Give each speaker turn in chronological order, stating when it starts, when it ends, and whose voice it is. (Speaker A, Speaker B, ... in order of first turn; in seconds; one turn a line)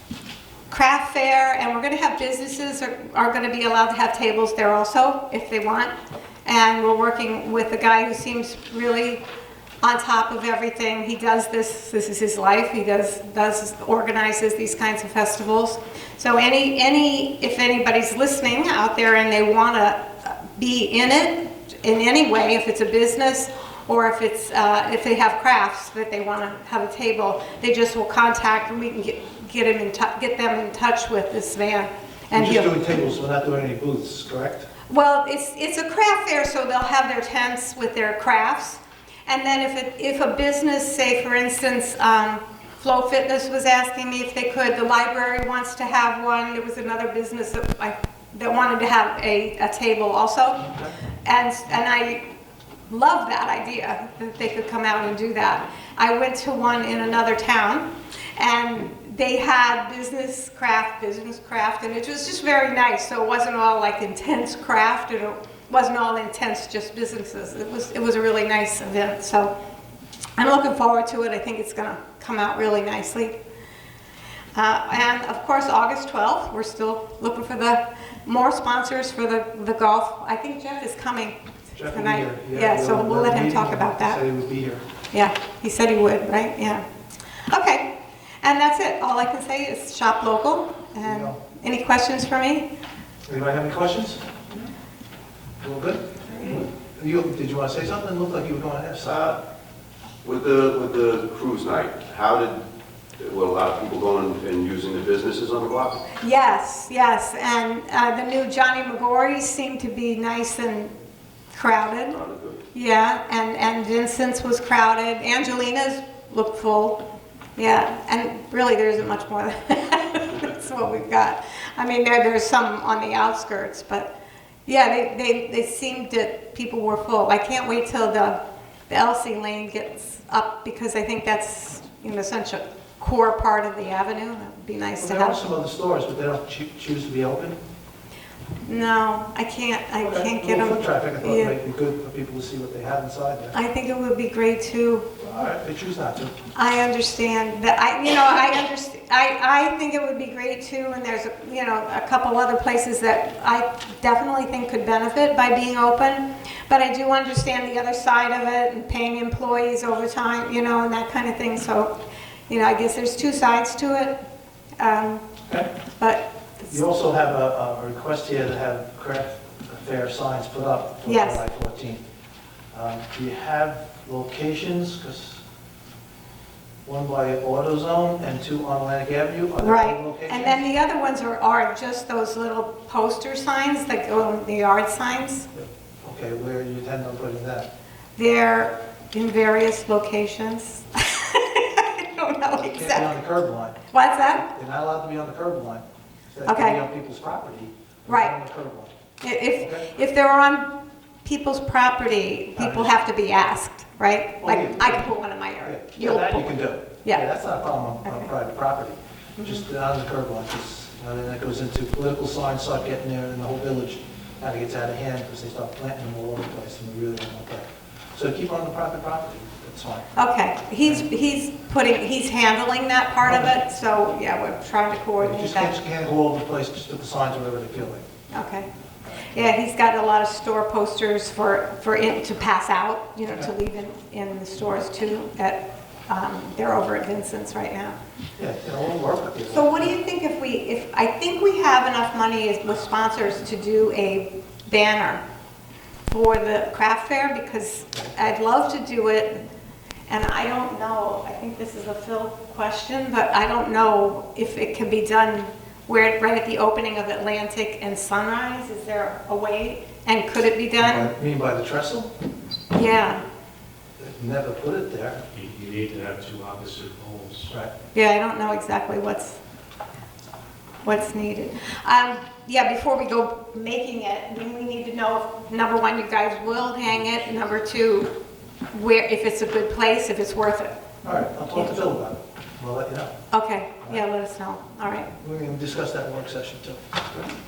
Speaker A: 0.7-9.2
Speaker A: 9.8-32.7
Speaker B: 32.3-34.7
Speaker A: 34.9-52.2
Speaker B: 50.7-50.9
Speaker A: 52.9-69.5
Speaker A: 70.4-73.4
Speaker A: 74.5-84.2
Speaker B: 81.8-84.8
Speaker A: 85.1-86.8
Speaker A: 87.4-87.9
Speaker A: 88.4-92.7
Speaker B: 91.0-91.4
Speaker B: 93.3-94.7
Speaker B: 95.6-99.4
Speaker C: 99.1-99.3
Speaker C: 100.2-102.6
Speaker C: 103.2-106.0
Speaker A: 106.2-110.9
Speaker A: 111.5-112.2
Speaker C: 112.1-112.6
Speaker A: 112.7-117.0
Speaker A: 117.6-124.1
Speaker A: 124.7-128.4
Speaker A: 128.9-135.4
Speaker B: 134.9-137.6
Speaker A: 138.7-141.5
Speaker B: 140.0-143.6
Speaker A: 143.5-145.1
Speaker B: 145.2-146.3
Speaker A: 146.6-161.9
Speaker A: 162.5-164.2
Speaker A: 164.8-165.3
Speaker A: 166.0-166.8
Speaker B: 166.7-172.0
Speaker A: 171.1-171.4
Speaker B: 172.7-175.4
Speaker B: 176.8-180.6
Speaker A: 179.6-185.5
Speaker B: 185.5-187.7
Speaker A: 188.2-193.1
Speaker B: 192.5-193.8
Speaker A: 193.9-194.5
Speaker B: 194.3-198.9
Speaker A: 196.5-196.8
Speaker A: 198.1-198.3
Speaker A: 199.2-200.7
Speaker B: 199.6-199.9
Speaker A: 201.2-207.3
Speaker B: 202.6-203.0
Speaker B: 204.4-205.1
Speaker B: 205.6-220.1
Speaker A: 208.0-208.3
Speaker A: 209.4-209.7
Speaker A: 220.2-225.8
Speaker B: 223.2-223.6
Speaker B: 225.2-228.1
Speaker A: 228.3-228.7
Speaker B: 229.2-229.5
Speaker A: 229.3-238.0
Speaker B: 238.4-240.0
Speaker A: 239.5-245.2
Speaker A: 246.1-249.4
Speaker A: 250.1-261.1
Speaker B: 260.8-262.1
Speaker A: 262.7-263.2
Speaker B: 264.0-265.2
Speaker D: 265.3-267.5
Speaker A: 267.9-269.4
Speaker A: 270.8-278.1
Speaker A: 278.7-280.8
Speaker B: 281.0-283.1
Speaker A: 283.3-285.1
Speaker B: 285.2-287.3